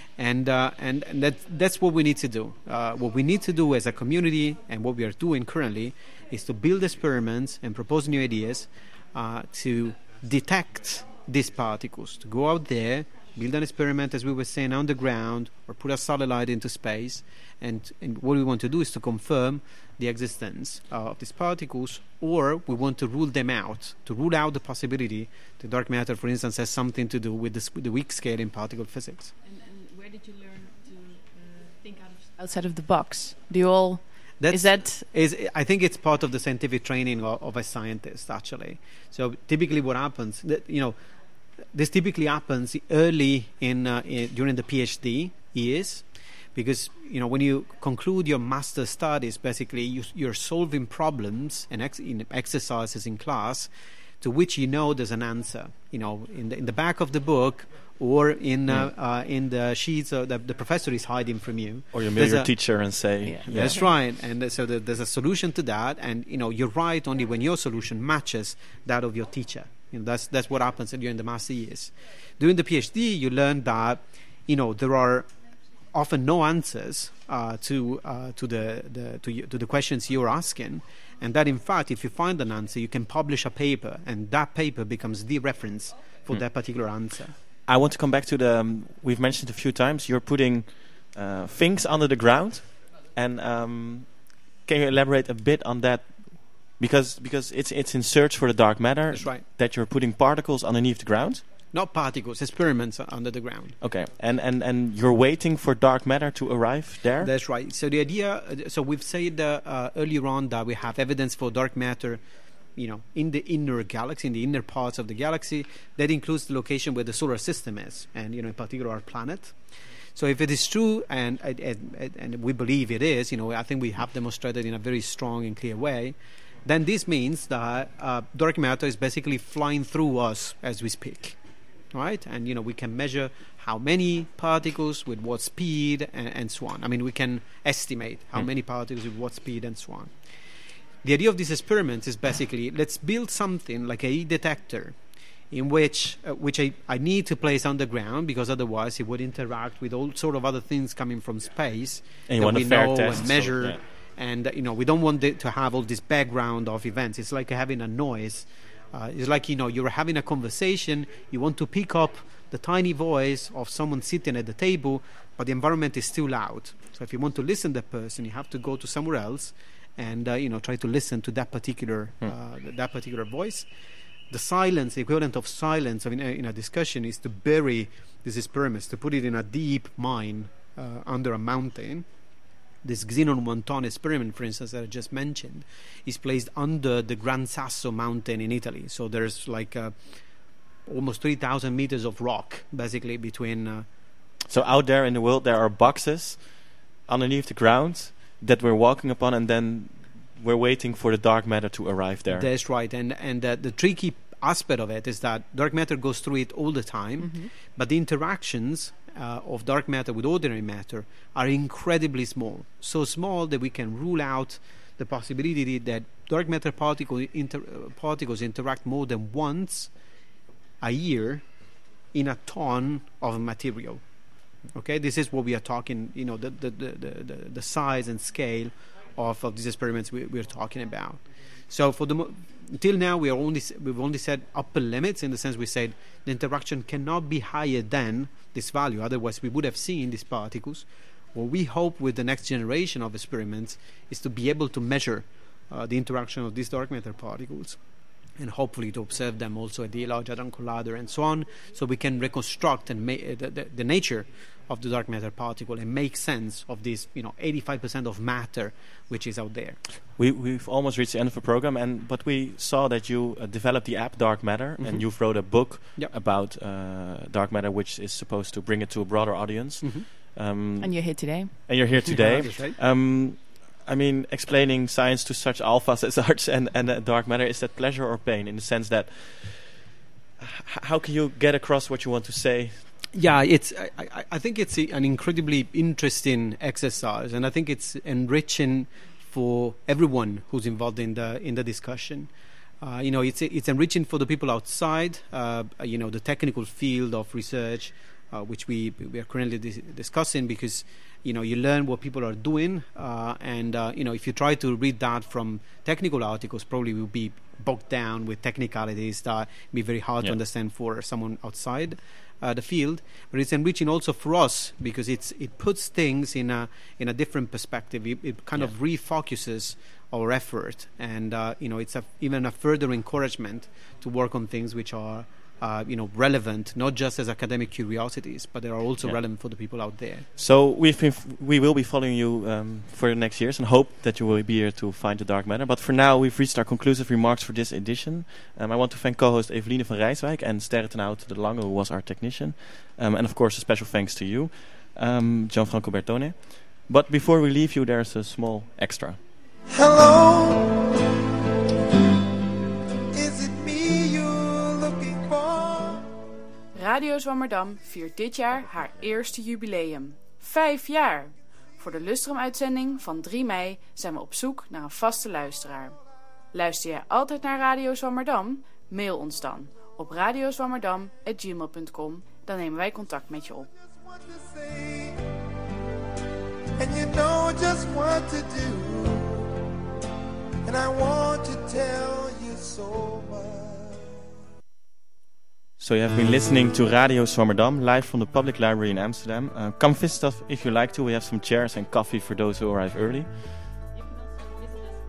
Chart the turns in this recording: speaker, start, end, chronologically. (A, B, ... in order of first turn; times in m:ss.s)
0:00.2-0:29.3 A
0:32.0-0:35.0 B
0:34.4-0:41.0 A
0:41.7-0:53.7 A
0:54.2-1:02.5 A
1:01.9-1:03.8 C
1:03.3-1:03.7 B
1:03.4-1:15.3 A
1:15.9-1:27.4 A
1:27.6-1:41.4 C
1:39.1-1:39.4 A
1:41.7-1:43.8 A
1:43.8-1:47.3 C
1:47.2-1:52.2 A
1:52.8-1:59.5 A
2:00.2-2:11.4 A
2:11.9-2:20.1 A
2:21.0-2:24.9 A
2:25.5-2:53.7 A
2:32.3-2:33.8 C
2:54.3-3:02.0 A
3:02.8-3:10.1 A
3:10.8-3:13.8 A
3:14.4-3:22.5 C
3:22.3-3:39.9 A
3:27.2-3:27.5 B
3:40.8-3:41.4 A
3:42.1-3:44.0 A
3:44.7-4:07.8 A
4:08.4-4:19.8 A
4:20.2-4:39.8 C
4:29.8-4:30.1 A
4:30.8-4:31.5 B
4:32.0-4:32.7 A
4:40.4-4:42.9 C
4:43.1-4:52.3 A
4:52.8-5:30.2 A
5:30.4-5:49.2 C
5:49.7-5:50.9 D
5:53.1-5:56.0 D
5:56.8-5:57.4 E
6:00.5-6:01.0 E
6:01.9-6:02.3 E
6:03.3-6:05.8 E
6:06.6-6:08.3 E
6:09.0-6:09.4 E
6:11.4-6:12.1 E
6:14.4-6:15.2 D
6:16.8-6:19.5 D
6:20.6-6:24.0 D
6:25.8-6:33.4 C